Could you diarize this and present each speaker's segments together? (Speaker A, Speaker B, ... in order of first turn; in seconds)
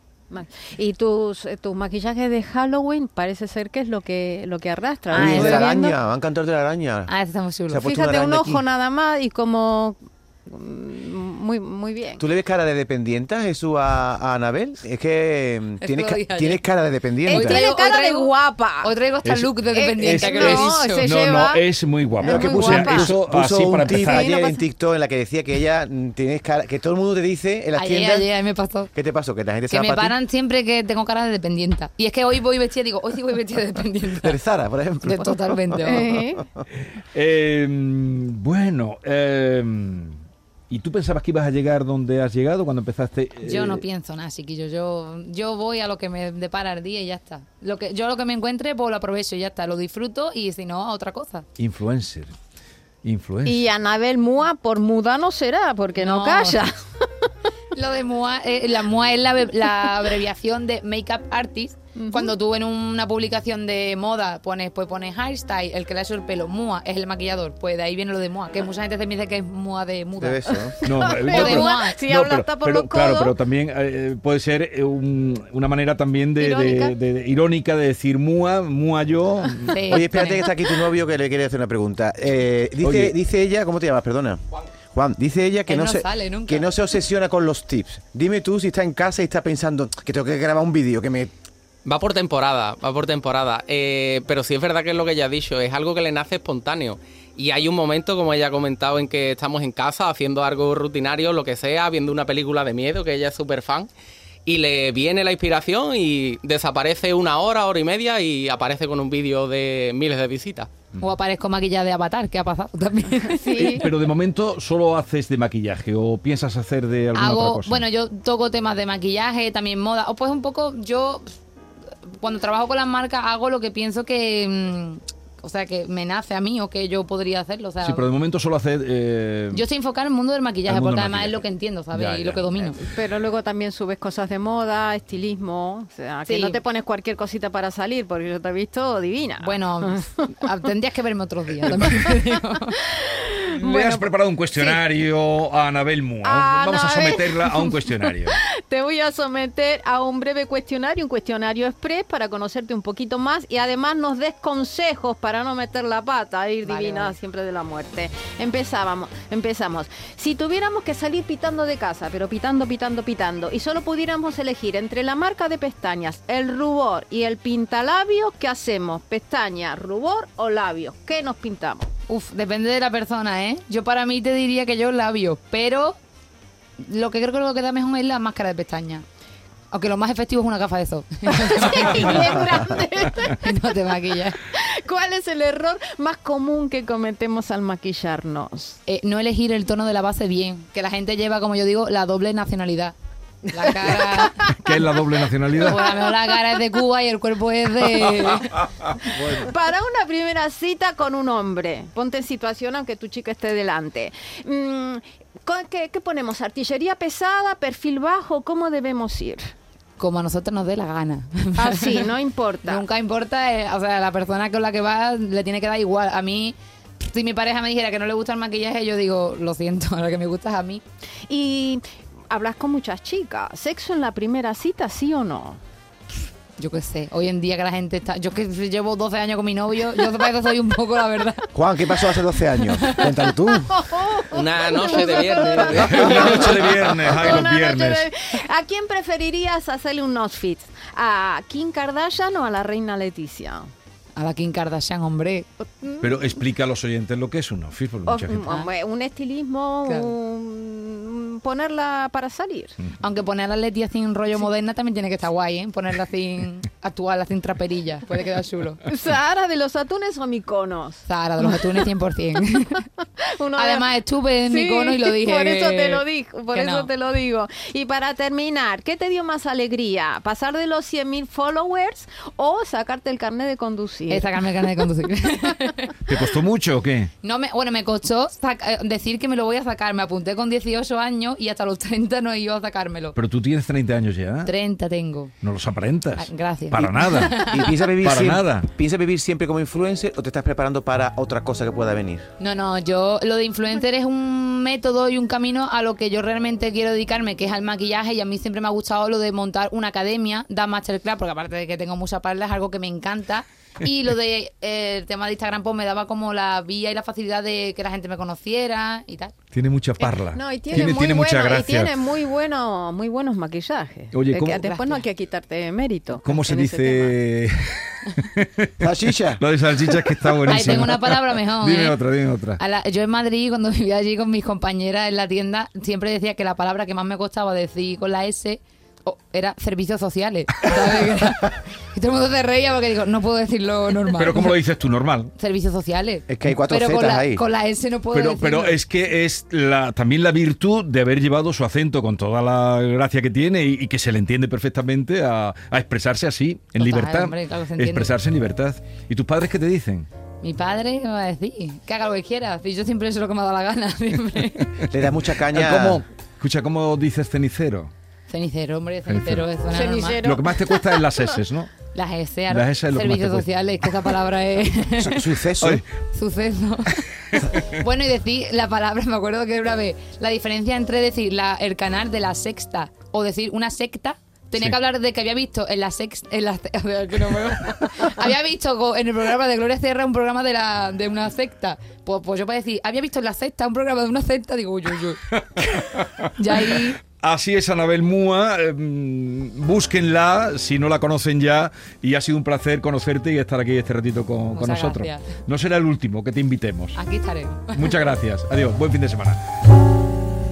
Speaker A: 0.3-6.0, 7.8-12.2, 17.3-18.9, 19.7-21.6, 22.2-23.1, 23.9-24.6, 35.8-36.5, 53.4-57.0, 62.0-62.4, 70.8-73.4, 113.3-113.9, 132.8-140.1, 142.9-144.8, 146.2-171.9, 181.3-183.4, 184.4-188.8, 193.6-194.5, 195.6-196.4, 199.1-209.5, 211.6-212.8, 221.3-225.6, 233.7-243.7, 248.1-252.8, 258.9-261.9, 263.3-263.9, 264.4-274.8, 310.0-317.2, 359.7-361.4
Speaker B: 5.1-7.1, 7.7-8.6, 12.2-17.6, 22.2-28.3, 28.9-30.2, 34.2-36.6, 70.2-70.8, 79.9-91.3, 231.5-233.8, 287.5-292.2, 318.8-319.4, 336.3-337.4, 354.9-356.0, 365.0-365.8
Speaker C: 5.1-5.7, 7.1-7.8, 15.8-16.6, 17.3-21.1, 27.8-28.9, 29.7-34.4, 35.0-36.1, 43.4-51.5, 56.0-56.7, 57.7-70.5, 71.2-72.0, 76.4-77.0, 79.7-80.5, 85.7-86.7, 111.0-113.9, 117.2-121.4, 122.0-128.1, 129.5-132.8, 136.3-136.6, 139.4-142.8, 156.7-157.1, 172.1-176.0, 176.8-179.0, 179.7-182.4, 183.2-184.4, 188.9-192.9, 193.5-194.6, 195.6-198.9, 210.0-212.1, 212.6-220.8, 226.6-233.4, 244.2-245.5, 248.4-248.7, 253.0-258.8, 261.1-262.9, 263.6-266.9, 274.1-276.2, 277.2-283.2, 284.4-285.4, 286.2-287.8, 292.4-309.4, 314.6-315.0, 320.5-322.0, 322.6-334.6, 335.4-338.8, 346.8-348.2, 350.4-354.9, 358.3-360.2, 361.9-365.4, 366.1-385.2, 386.3-387.0, 394.5-395.3, 396.9-398.0
Speaker D: 19.2-24.3, 36.9-43.8, 51.6-52.3, 53.0-53.6, 70.8-79.9, 82.8-83.1, 113.7-117.9, 127.8-129.6, 130.7-132.8, 143.6-148.4, 194.6-195.8, 235.6-238.1, 246.0-248.4, 276.1-277.1, 283.1-284.5, 285.4-287.4, 288.0-288.7, 309.5-311.9, 314.1-314.7, 316.2-322.6, 334.1-335.3, 338.1-350.1, 355.4-357.9, 359.1-359.5, 360.2-361.7, 362.5-363.5, 385.3-397.0, 397.7-399.4
Speaker E: 91.8-103.9, 104.5-110.7, 234.2-236.9